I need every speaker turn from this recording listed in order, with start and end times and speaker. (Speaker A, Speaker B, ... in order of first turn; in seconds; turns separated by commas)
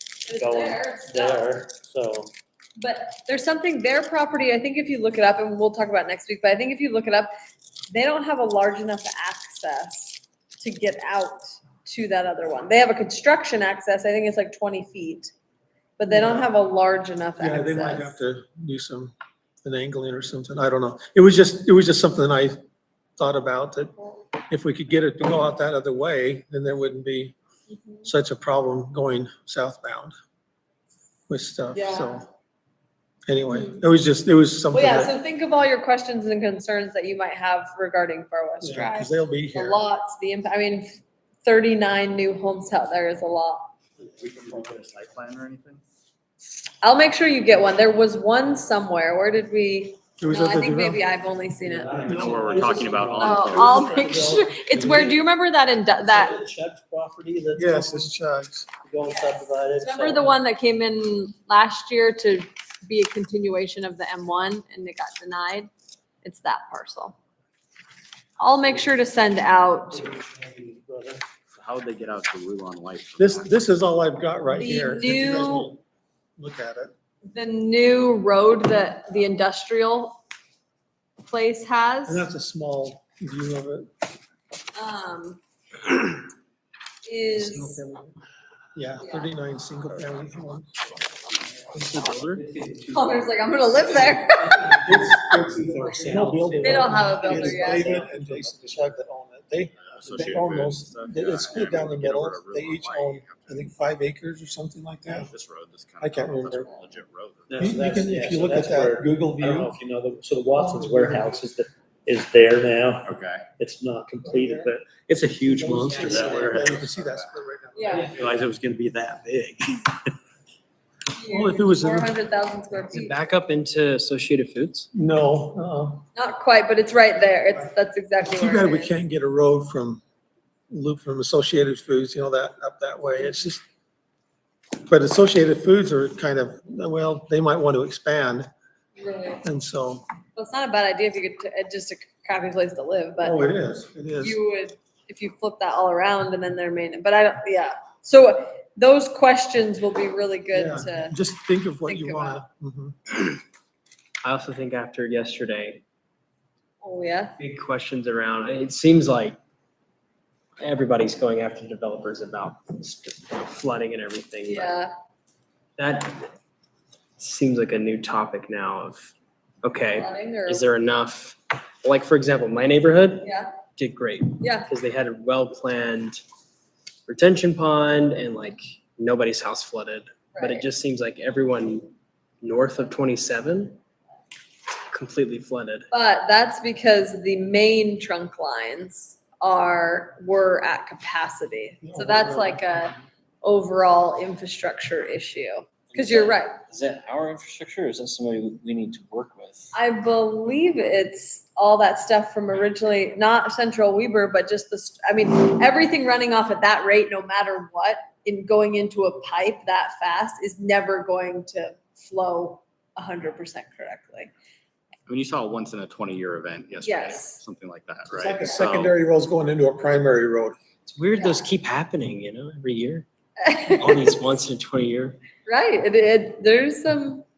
Speaker A: 0.2-2.3, Speaker B: 0.3-1.5, Speaker B: 2.8-7.3, Speaker B: 7.9-15.3, Speaker B: 16.0-18.2, Speaker C: 16.1-16.5, Speaker C: 17.4-22.6, Speaker C: 23.2-27.3, Speaker B: 27.7-28.1, Speaker C: 28.0-30.1, Speaker C: 31.3-32.3, Speaker B: 31.7-32.1, Speaker C: 33.3-35.1, Speaker B: 33.5-33.8, Speaker B: 34.7-40.9, Speaker C: 38.6-39.8, Speaker B: 41.4-43.7, Speaker A: 44.0-44.8, Speaker D: 44.2-45.8, Speaker B: 46.8-51.9, Speaker C: 50.2-51.0, Speaker A: 51.6-55.2, Speaker C: 52.0-52.4, Speaker D: 52.1-54.1, Speaker B: 53.2-56.3, Speaker A: 56.0-58.1, Speaker C: 57.6-58.7, Speaker A: 58.8-60.3, Speaker B: 59.1-65.7, Speaker B: 66.2-67.2, Speaker B: 68.4-70.1, Speaker A: 69.9-71.2, Speaker D: 71.5-73.5, Speaker C: 73.2-75.8, Speaker B: 74.6-75.7, Speaker C: 76.4-76.9, Speaker B: 77.2-80.2, Speaker B: 81.2-82.3, Speaker C: 82.0-83.9, Speaker B: 84.7-85.4, Speaker B: 87.0-87.8, Speaker C: 87.4-88.1, Speaker C: 88.7-90.9, Speaker B: 89.0-89.3, Speaker E: 91.7-92.4, Speaker A: 92.5-93.0, Speaker B: 92.9-94.6, Speaker A: 94.5-99.0, Speaker C: 94.9-105.3, Speaker B: 96.6-97.9, Speaker D: 99.8-103.8, Speaker D: 105.0-107.6, Speaker C: 106.0-106.7, Speaker A: 107.5-116.8, Speaker C: 107.6-109.8, Speaker C: 110.5-111.4, Speaker D: 113.0-113.5, Speaker C: 114.2-114.7, Speaker C: 115.4-118.2, Speaker D: 116.3-117.3, Speaker B: 117.7-118.1, Speaker A: 117.9-120.0, Speaker B: 121.1-123.2, Speaker C: 121.3-122.1, Speaker E: 122.9-124.9, Speaker C: 124.9-126.0, Speaker B: 126.1-128.9, Speaker C: 128.2-130.0, Speaker C: 130.7-133.6, Speaker C: 134.8-138.5, Speaker B: 139.0-139.4, Speaker C: 139.4-140.1, Speaker B: 140.3-143.4, Speaker C: 143.2-144.4, Speaker B: 144.2-151.2, Speaker C: 150.5-152.9, Speaker B: 151.8-152.4, Speaker E: 154.2-155.8, Speaker B: 156.8-157.3, Speaker E: 157.4-159.4, Speaker E: 160.6-164.7, Speaker B: 164.4-164.9, Speaker E: 165.8-166.2, Speaker E: 167.2-176.2, Speaker B: 169.9-170.7, Speaker B: 173.2-173.5, Speaker B: 174.4-174.7, Speaker E: 177.1-181.9, Speaker B: 180.3-180.6, Speaker E: 182.4-183.8, Speaker E: 184.9-185.8, Speaker B: 185.9-196.6, Speaker C: 191.8-193.0, Speaker F: 195.9-199.7, Speaker B: 199.7-214.3, Speaker D: 215.1-218.9, Speaker B: 216.8-217.4, Speaker C: 218.1-220.5, Speaker E: 220.8-223.1, Speaker B: 221.1-221.4, Speaker B: 223.4-224.0, Speaker E: 223.7-225.2, Speaker B: 225.4-227.2